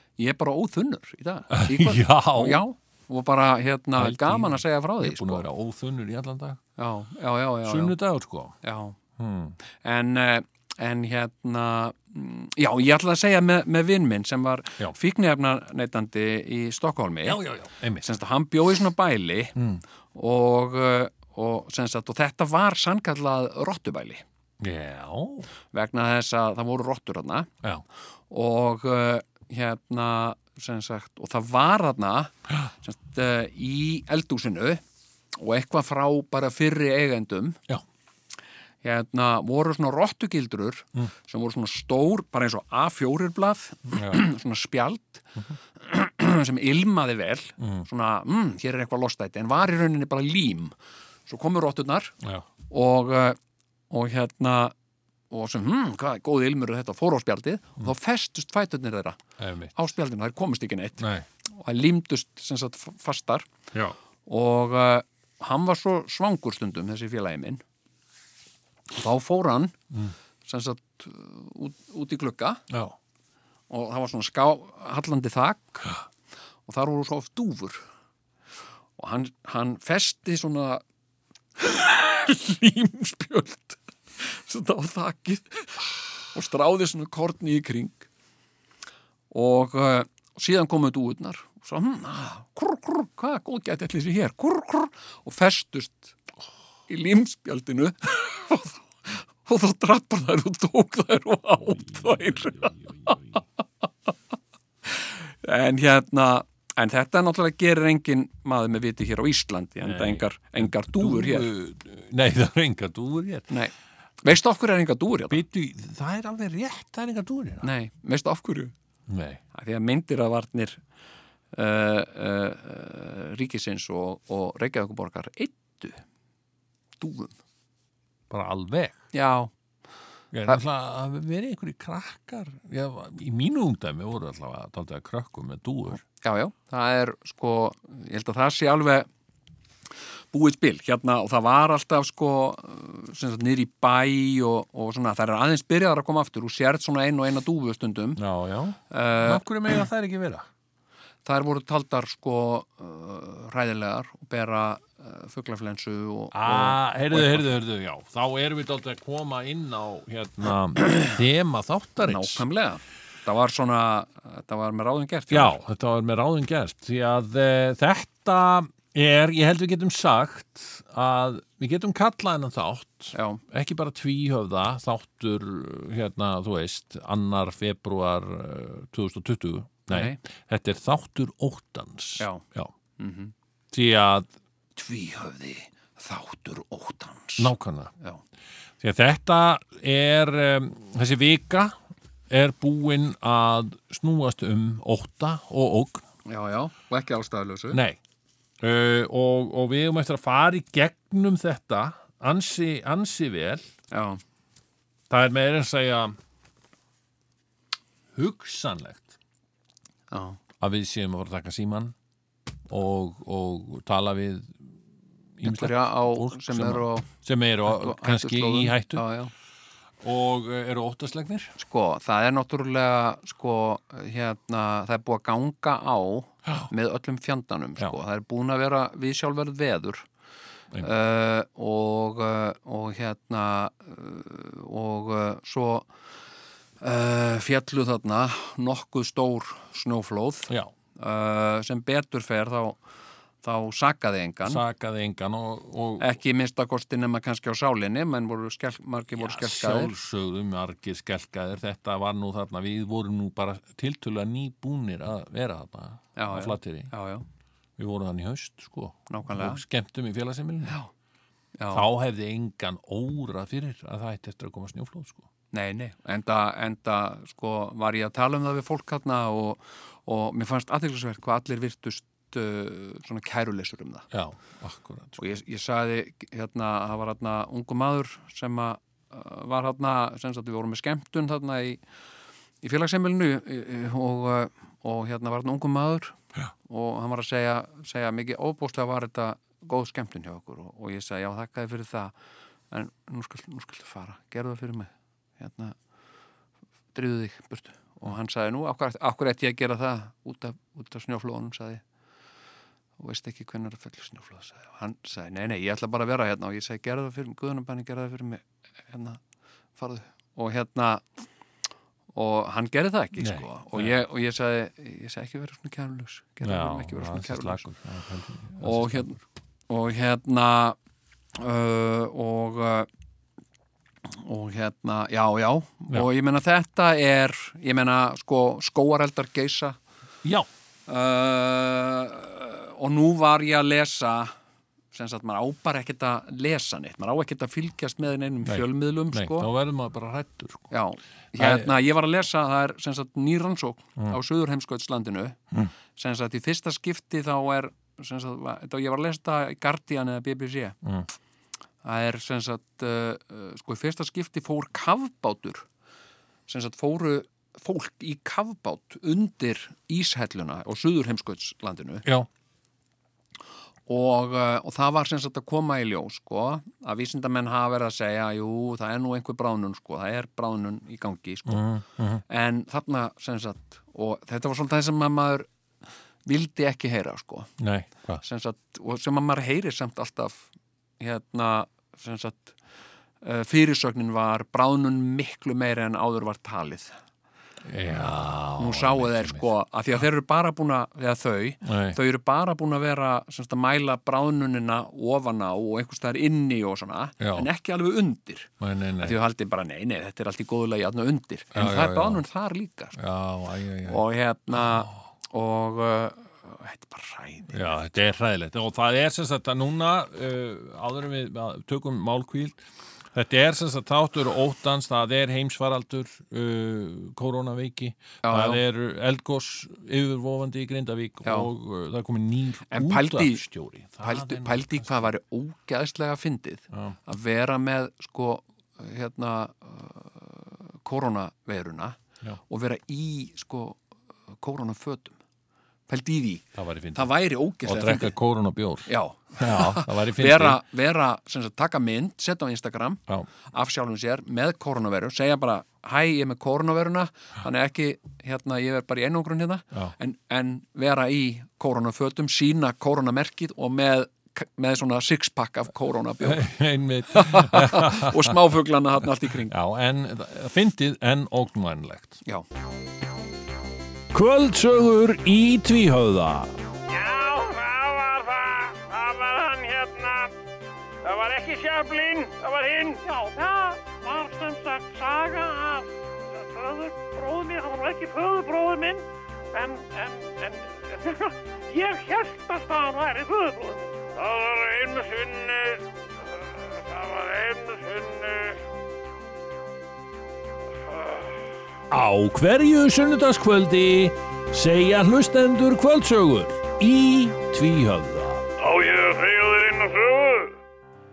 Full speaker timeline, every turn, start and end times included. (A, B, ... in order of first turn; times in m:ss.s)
0:00.2-0:05.5 A
0:01.5-0:02.6 B
0:04.0-0:06.6 B
0:06.8-0:08.0 A
0:07.6-0:08.6 B
0:08.6-0:09.0 A
0:09.2-0:09.6 B
0:09.8-0:17.4 A
0:17.2-0:18.2 B
0:18.0-0:19.6 A
0:19.6-0:19.8 B
0:20.1-0:24.2 A
0:24.6-0:25.5 B
0:25.7-0:27.5 A
0:28.3-0:34.8 A
0:35.4-0:37.6 A
0:38.8-0:50.7 A
0:43.9-0:44.2 B
0:47.6-0:47.9 B
0:51.3-0:52.2 A
0:52.7-0:53.4 A
0:53.9-0:54.7 A
0:55.3-0:59.2 A
0:59.4-0:59.7 B
0:59.7-1:03.5 A
1:01.0-1:01.3 B
1:04.3-1:07.6 A
1:08.9-1:09.8 A
1:10.5-1:12.6 A
1:12.7-1:13.0 B
1:13.7-1:16.0 A
1:16.7-1:17.8 A
1:19.0-1:20.8 A
1:21.6-1:28.1 A
1:29.3-1:36.2 A
1:36.9-1:43.2 A
1:41.6-1:43.4 B
1:44.9-1:51.5 A
1:49.8-1:53.5 B
1:53.5-1:55.4 A
1:55.3-1:57.7 B
1:57.6-1:58.7 A
1:59.1-1:59.4 B
1:59.5-2:00.8 A
2:01.5-2:06.0 A
2:07.0-2:07.4 A
2:08.3-2:09.0 B
2:09.1-2:09.5 A
2:10.3-2:16.0 B
2:16.2-2:19.1 A
2:20.3-2:28.2 A
2:28.2-2:30.5 B
2:28.9-2:29.4 A
2:31.2-2:37.5 A
2:36.3-2:42.4 B
2:42.0-2:45.6 A
2:45.3-3:02.7 B
2:53.1-2:53.4 A
2:59.9-3:00.2 A
3:03.0-3:03.3 A
3:03.7-3:04.3 B
3:04.8-3:08.2 A
3:07.4-3:07.9 B
3:08.8-3:11.8 B
3:12.3-3:16.0 B
3:16.3-3:17.8 A
3:17.7-3:18.0 B
3:18.6-3:23.7 B
3:23.9-3:24.2 A
3:25.1-3:26.2 B
3:28.1-3:29.2 B
3:30.1-3:30.4 A
3:30.6-3:31.9 B
3:32.7-3:34.6 B
3:35.4-3:39.0 B
3:35.4-3:37.1 A
3:37.7-3:39.3 A
3:40.0-3:41.5 B
3:41.6-3:50.1 A
3:50.8-3:55.9 A
3:56.8-4:02.8 A
4:03.4-4:04.6 A
4:04.4-4:06.2 B
4:06.0-4:09.9 A
4:09.2-4:16.9 B
4:16.2-4:17.2 A
4:17.8-4:20.8 B
4:19.1-4:19.6 A
4:20.6-4:20.9 A
4:21.6-4:21.9 A
4:21.7-4:25.3 B
4:25.5-4:34.1 A
4:34.1-4:35.2 B
4:35.2-4:41.8 A
4:42.6-4:52.1 A
4:52.7-4:55.8 A
4:56.9-5:01.8 A
5:03.0-5:09.2 A
5:09.8-5:11.0 A
5:12.2-5:17.7 A
5:13.2-5:14.0 B
5:16.4-5:19.1 B
5:18.6-5:20.8 A
5:21.4-5:22.9 A
5:24.1-5:29.8 A
5:30.9-5:34.3 A
5:34.9-5:39.5 A
5:38.4-5:40.7 B
5:40.7-5:45.4 A
5:41.4-5:41.7 B
5:46.0-5:50.8 A
5:51.8-5:55.7 A
5:56.5-6:02.0 A
6:03.9-6:11.7 A
6:11.5-6:12.2 B
6:12.3-6:15.5 A
6:16.2-6:17.5 A
6:17.6-6:18.2 B
6:18.2-6:20.5 A
6:21.0-6:22.6 A
6:23.2-6:27.0 A
6:27.6-6:29.5 B
6:28.0-6:43.0 A
6:31.6-6:32.0 B
6:37.2-6:37.5 B
6:38.6-6:39.2 B
6:41.5-6:42.2 B
6:43.0-6:44.0 B
6:43.8-6:47.6 A
6:44.5-6:44.9 B
6:47.5-6:52.6 B
6:53.1-7:05.1 B
6:58.2-6:58.6 A
7:01.2-7:01.5 A
7:02.7-7:03.4 A
7:04.0-7:13.8 A
7:06.7-7:07.0 B
7:14.4-7:15.2 A
7:15.9-7:18.1 A
7:16.6-7:17.1 B
7:17.6-7:20.6 B
7:18.9-7:36.5 A
7:36.2-7:38.4 B
7:37.1-7:39.5 A
7:39.5-7:42.2 B
7:44.1-7:46.6 B
7:46.9-7:50.3 C
7:51.0-8:08.6 C
8:10.9-8:11.4 C
8:11.9-8:18.5 B
8:18.6-8:20.5 C